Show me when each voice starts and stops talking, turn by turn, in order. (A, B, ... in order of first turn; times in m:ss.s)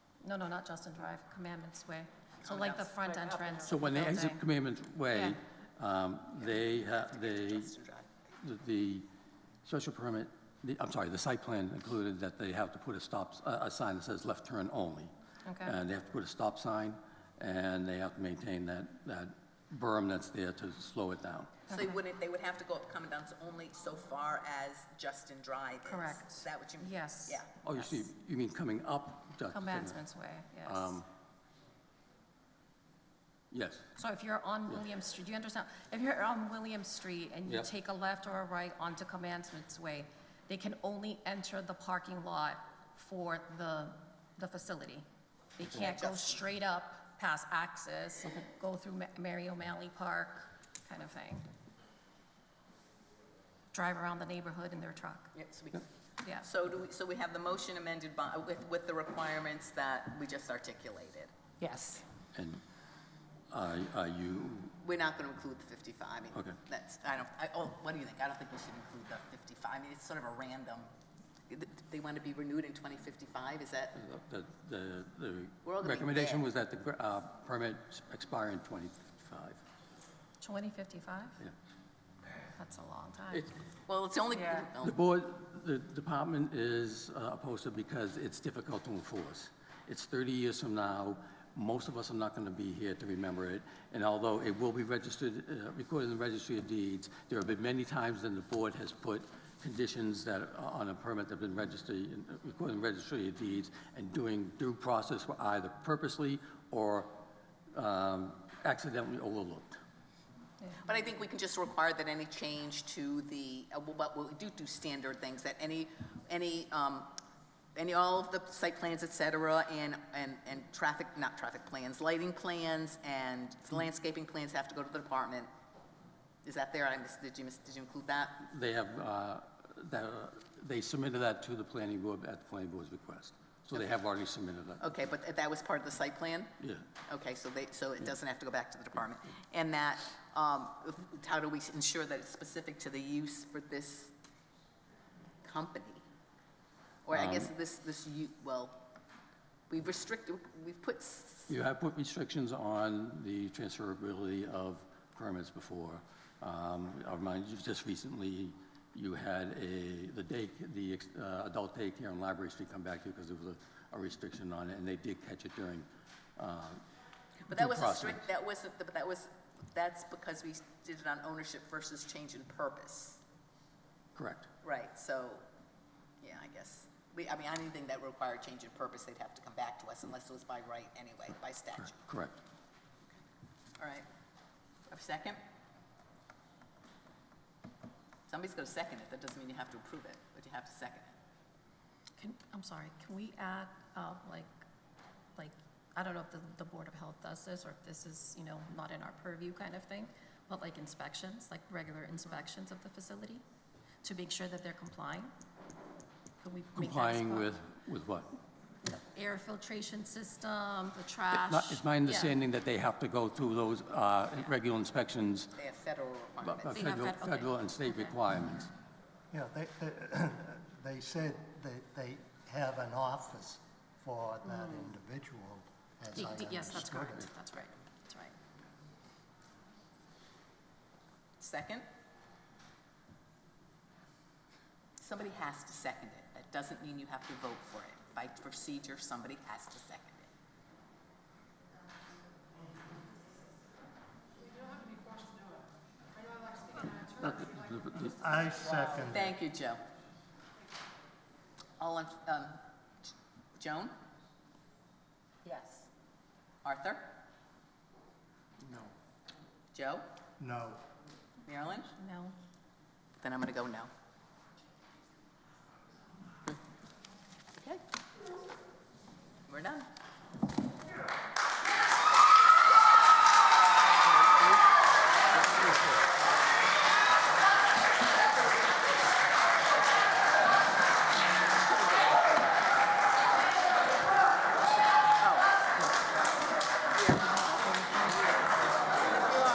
0:00.2-0:04.4 A
0:02.4-0:02.9 B
0:03.6-0:07.7 C
0:06.4-0:08.1 B
0:08.4-0:09.0 C
0:09.6-0:15.1 C
0:15.6-0:21.7 C
0:21.7-0:27.5 B
0:25.9-0:27.4 A
0:27.6-0:30.0 C
0:29.5-0:30.9 A
0:30.6-0:31.1 C
0:33.5-0:33.8 C
0:34.0-0:45.0 A
0:37.4-0:37.7 C
0:45.6-0:51.5 A
0:45.7-0:46.4 B
0:53.7-0:55.3 A
0:55.3-1:01.3 B
1:01.6-1:02.0 A
1:02.3-1:02.6 C
1:03.5-1:04.7 C
1:04.8-1:10.9 B
1:11.5-1:14.0 B
1:13.9-1:19.6 C
1:15.6-1:16.4 B
1:20.4-1:21.4 A
1:22.6-1:23.4 A
1:23.9-1:25.0 B
1:24.8-1:47.2 C
1:47.7-1:49.8 C
1:50.8-1:57.2 B
1:57.7-2:05.5 B
2:06.4-2:08.4 B
2:08.5-2:14.8 C
2:14.8-2:16.5 B
2:16.6-2:16.8 C
2:17.1-2:24.1 B
2:25.4-2:26.0 B
2:27.0-2:28.8 B
2:27.1-2:27.4 C
2:29.7-2:31.5 B
2:31.5-2:45.8 C
2:46.4-2:46.8 C
2:47.5-2:53.2 B
2:47.5-2:48.2 C
2:54.2-2:54.5 C
2:54.6-2:55.4 B
2:56.2-3:02.0 B
3:01.8-3:02.3 C
3:03.8-3:04.0 B
3:04.9-3:05.4 B
3:08.3-3:11.2 B
3:12.2-3:14.6 A
3:15.4-3:23.4 A
3:24.0-3:25.3 A
3:26.4-3:27.5 A
3:26.7-3:28.3 C
3:28.8-3:32.3 A
3:31.3-3:35.5 C
3:35.6-3:37.1 B
3:36.4-3:38.7 C
3:36.7-3:38.0 A
3:39.3-3:47.3 D
3:46.1-3:48.3 A
3:51.4-3:51.8 B
3:55.0-4:00.3 B
4:06.9-4:08.2 C
4:08.2-4:09.3 D
4:09.1-4:09.8 B
4:11.8-4:12.6 B
4:13.6-4:13.9 B
4:15.4-4:15.8 A
4:16.6-4:17.1 B
4:19.7-4:20.0 B
4:20.4-4:20.8 D
4:21.4-4:21.9 B
4:22.0-4:22.4 A
4:23.2-4:23.9 B
4:27.6-4:27.8 B
4:29.5-4:29.9 B
4:45.2-4:45.6 B
4:47.0-4:47.5 B